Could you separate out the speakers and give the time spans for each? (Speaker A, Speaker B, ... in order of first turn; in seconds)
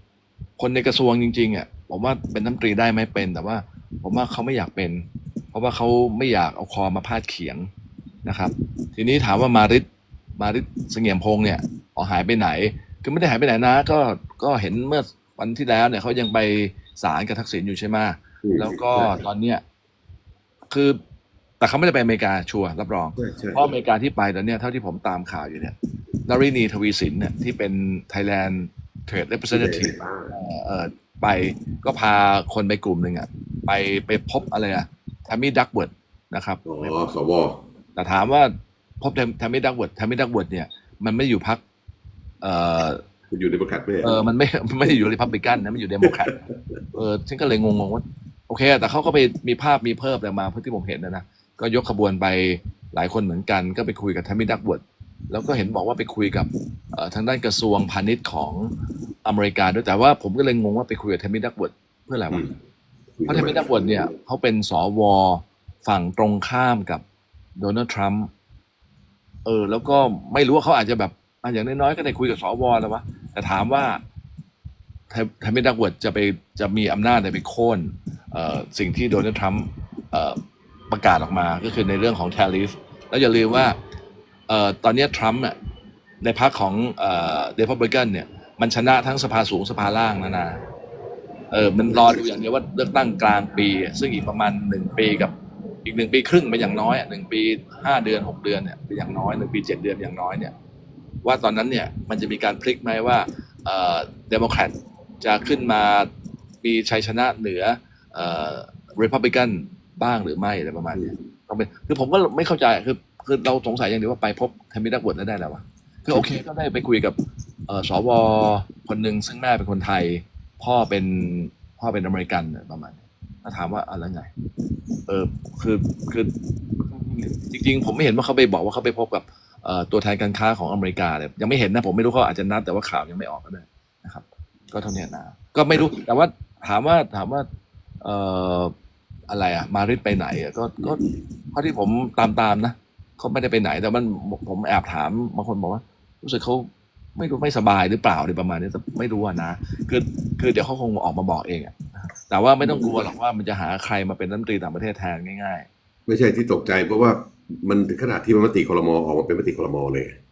Speaker A: 0.6-7.7, 8.2-9.8, 10.4-19.6, 20.7-21.0, 21.6-37.0, 38.0-41.6, 42.4-43.0, 44.0-58.7, 59.2-62.5, 63.3-67.0, 67.6-68.3, 69.5-74.0, 75.1-80.4, 80.9-83.8, 84.5-85.5, 86.2-90.6, 91.5-95.3, 95.8-100.5, 101.2-106.1, 106.6-124.3, 125.1-137.5, 138.0-138.7, 139.3-151.8, 152.3-155.7
Speaker B: 18.4-19.2, 23.2-23.7, 29.5-30.4, 36.7-37.6, 43.3-44.2, 46.0-46.8, 63.2-64.1, 91.9-92.3, 140.8-141.2, 152.6-153.1, 156.1-160.2